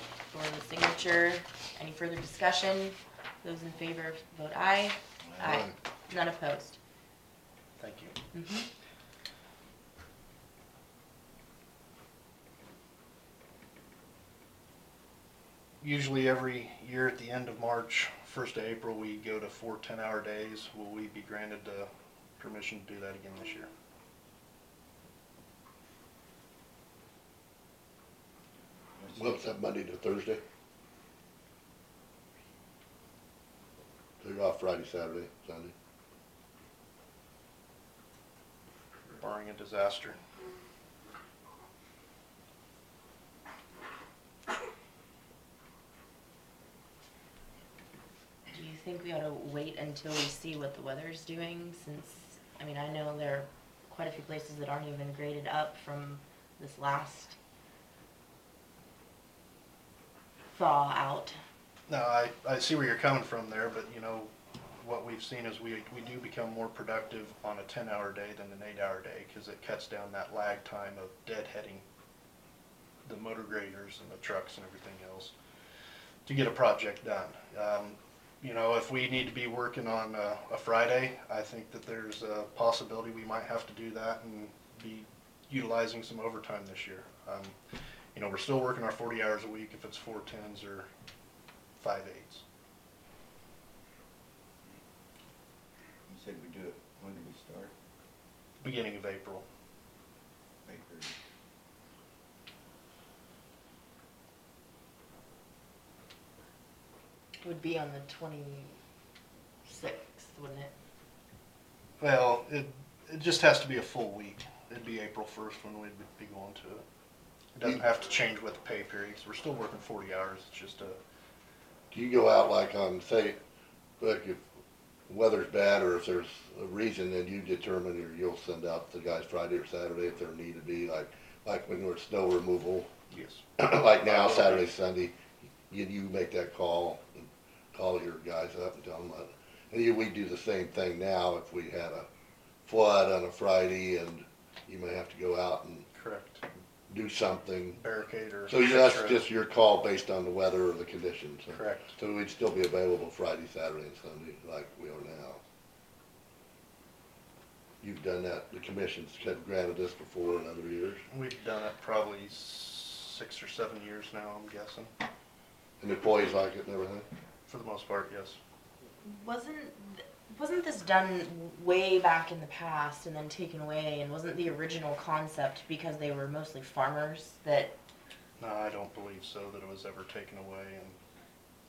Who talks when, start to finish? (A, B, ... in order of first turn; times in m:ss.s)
0:00.3-0:06.8 A
0:05.3-0:05.6 B
0:07.8-0:08.2 C
0:08.3-0:08.7 A
0:15.8-0:23.7 C
0:29.0-0:29.3 B
0:29.1-0:30.4 D
0:34.2-0:35.7 D
0:39.2-0:40.2 C
0:48.5-0:57.4 A
1:00.5-1:01.4 A
1:01.9-1:11.8 C
1:13.0-1:15.3 C
1:16.2-1:27.6 C
1:28.1-1:30.9 C
1:31.8-1:32.4 C
1:36.1-1:37.7 B
1:38.6-1:39.4 C
1:40.6-1:41.1 B
1:47.4-1:48.7 A
1:49.6-1:50.7 A
1:52.0-1:56.8 C
1:57.5-2:01.0 C
2:01.9-2:03.4 D
2:04.0-2:04.4 D
2:05.1-2:12.9 D
2:13.1-2:13.4 C
2:13.6-2:15.2 D
2:14.0-2:14.7 C
2:15.7-2:22.0 D
2:22.6-2:25.8 D
2:25.9-2:26.4 C
2:26.9-2:27.8 D
2:27.7-2:29.2 C
2:28.5-2:35.4 D
2:31.5-2:32.0 C
2:37.8-2:41.0 D
2:41.1-2:44.9 C
2:45.8-2:47.1 D
2:47.5-2:48.4 C
2:49.0-2:57.7 A
2:58.4-3:01.0 C